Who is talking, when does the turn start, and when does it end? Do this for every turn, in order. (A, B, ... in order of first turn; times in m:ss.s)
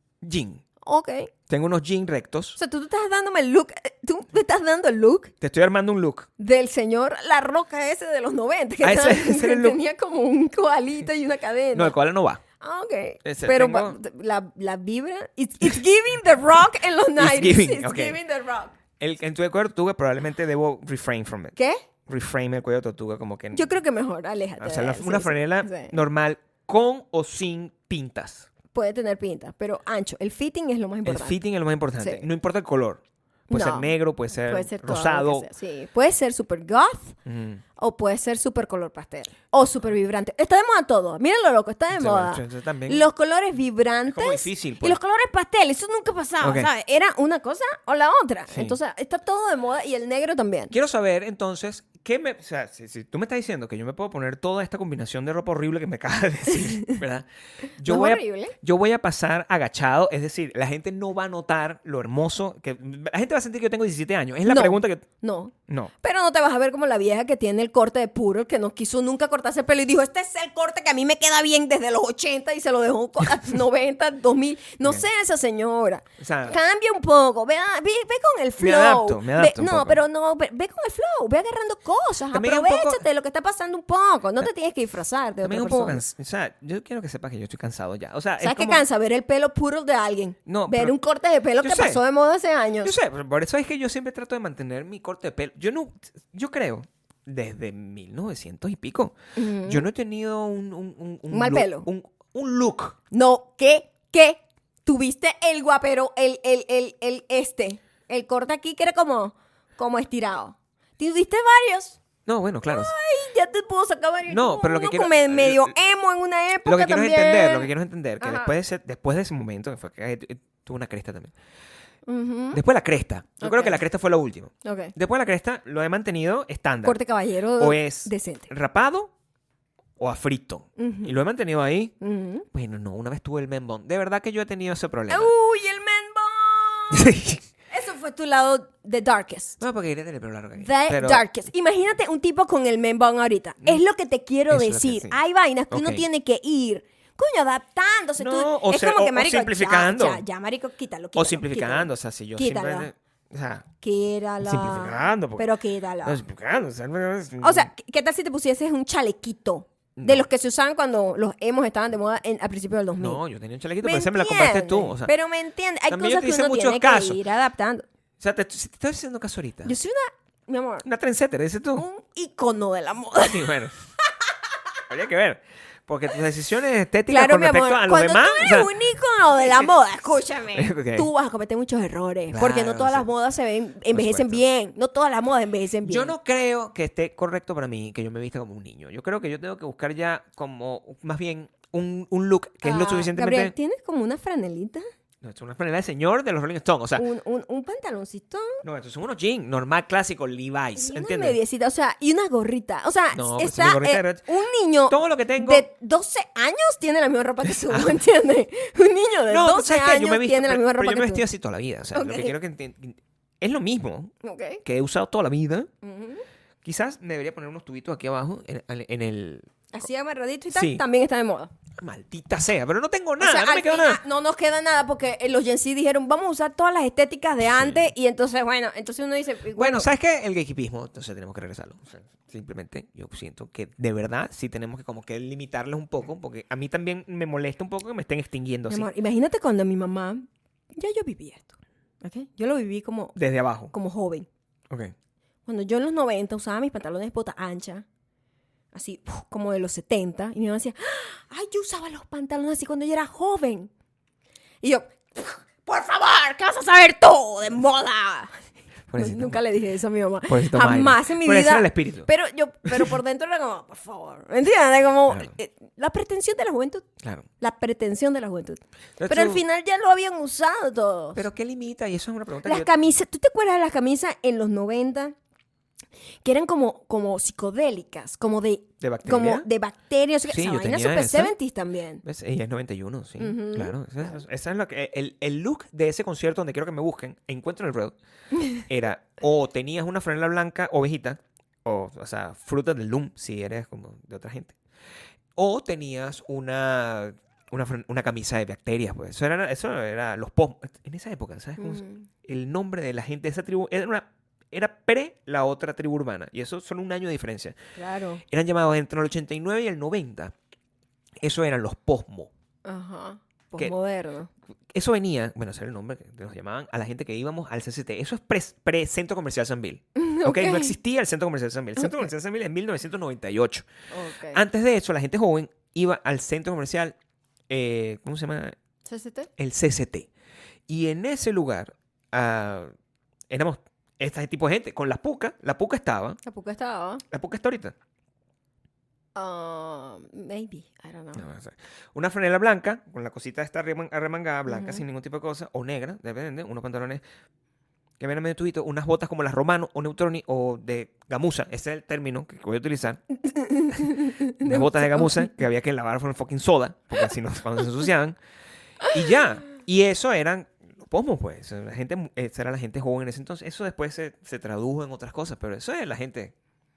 0:00.2-0:00.6 A
0:00.8-0:01.3 B
0:01.5-0:02.6 A
0:02.6-0:05.3 B
0:05.4-0:06.3 A
0:06.4-0:12.0 B
0:08.8-0:09.8 A
0:11.7-0:12.4 A
0:12.6-0:18.7 B
0:13.2-0:14.0 A
0:17.2-0:18.2 A
0:19.0-0:21.5 A
0:21.6-0:21.8 B
0:22.1-0:23.7 A
0:23.5-0:26.0 B
0:24.6-0:28.5 A
0:28.7-0:31.4 B
0:31.0-0:35.5 A
0:32.0-0:32.2 B
0:33.5-0:33.9 B
0:34.4-0:37.2 B
0:37.2-0:37.6 A
0:37.8-0:50.7 B
0:41.9-0:43.1 A
0:44.1-0:45.0 A
0:46.4-0:46.7 A
0:48.5-0:48.8 A
0:50.7-1:05.0 A
0:57.8-0:58.5 B
1:04.4-1:26.0 B
1:16.2-1:16.6 A
1:18.6-1:20.0 A
1:22.3-1:23.0 A
1:25.4-1:28.8 A
1:28.4-1:32.9 B
1:30.5-1:30.9 A
1:31.6-1:32.0 A
1:32.8-1:43.0 A
1:39.4-1:39.8 B
1:41.3-1:41.9 B
1:43.1-1:52.0 B
1:52.2-1:52.9 A
1:52.7-1:58.5 B
1:54.3-1:55.7 A
1:56.6-2:01.3 A
2:02.1-2:02.6 B
2:02.5-2:07.0 A
2:03.4-2:03.8 B
2:04.6-2:04.9 B
2:06.8-2:08.5 B
2:07.6-2:09.1 A
2:10.0-2:11.9 A
2:10.8-2:11.1 B
2:12.0-2:12.4 B
2:12.5-2:15.3 A
2:15.1-2:17.2 B
2:16.9-2:17.4 A
2:17.7-2:19.6 B
2:19.6-2:21.2 A
2:20.6-2:32.9 B
2:24.5-2:25.2 A
2:25.7-2:26.0 A
2:28.2-2:30.2 A
2:31.2-2:33.6 A
2:33.8-2:36.2 B
2:34.4-2:35.5 A
2:36.0-2:37.7 A
2:37.4-2:43.2 B
2:40.0-2:40.2 A
2:43.0-2:45.1 A
2:43.8-2:47.8 B
2:45.9-2:47.2 A
2:48.2-2:49.7 A
2:49.6-2:50.8 B
2:50.8-2:51.8 A
2:51.8-2:53.6 B
2:53.2-2:53.8 A
2:54.9-2:58.7 A
2:57.1-3:06.1 B
2:59.4-2:59.7 A
3:00.5-3:01.1 A
3:02.3-3:03.1 A
3:03.9-3:04.4 A
3:05.8-3:13.5 A
3:12.6-3:14.8 B
3:15.2-3:17.0 A
3:17.0-3:18.6 B
3:18.6-3:21.4 A
3:20.8-3:31.2 B
3:23.1-3:24.2 A
3:24.9-3:25.6 A
3:27.5-3:28.0 A
3:29.3-3:34.1 A
3:31.9-3:32.3 B
3:34.2-3:34.6 B
3:34.6-3:35.7 A
3:35.8-3:36.2 B
3:36.6-3:39.6 A
3:39.7-3:41.5 B
3:40.5-3:40.8 A
3:41.8-3:44.0 A
3:43.2-3:49.9 B
3:47.5-3:47.9 A
3:49.6-3:58.9 A
3:58.7-4:03.2 B
4:03.2-4:03.7 A
4:03.7-4:04.3 B
4:05.4-4:07.8 B
4:08.7-4:13.7 B
4:14.6-4:18.4 B
4:18.9-4:19.4 A
4:18.9-4:26.9 B
4:20.3-4:22.1 A
4:22.7-4:22.9 A
4:25.1-4:25.3 A
4:27.0-4:27.2 A
4:27.4-4:31.2 B
4:29.0-4:29.4 A
4:31.2-4:32.7 A
4:32.4-4:35.1 B
4:36.2-4:42.0 B
4:38.8-4:39.5 A
4:40.3-4:41.3 A
4:42.0-4:47.9 A
4:43.2-4:43.7 B
4:48.6-4:54.6 A
4:55.4-5:07.5 A
5:01.6-5:02.1 B
5:07.8-5:08.2 B
5:08.3-5:10.3 A
5:11.2-5:12.3 A
5:12.6-5:14.3 B
5:14.7-5:23.7 A
5:20.0-5:20.7 B
5:21.8-5:22.1 B
5:23.9-5:24.4 B
5:24.3-5:27.0 A
5:27.5-5:28.6 A
5:28.8-5:29.3 B
5:29.4-5:30.1 A
5:30.7-5:32.7 A
5:33.3-5:36.2 A
5:36.2-5:37.0 B
5:37.1-5:37.7 A
5:39.2-5:41.2 B
5:41.2-5:47.0 A
5:44.5-5:44.8 B
5:48.0-5:53.0 A
5:53.2-5:55.3 B
5:53.7-5:58.2 A
5:58.9-6:06.3 A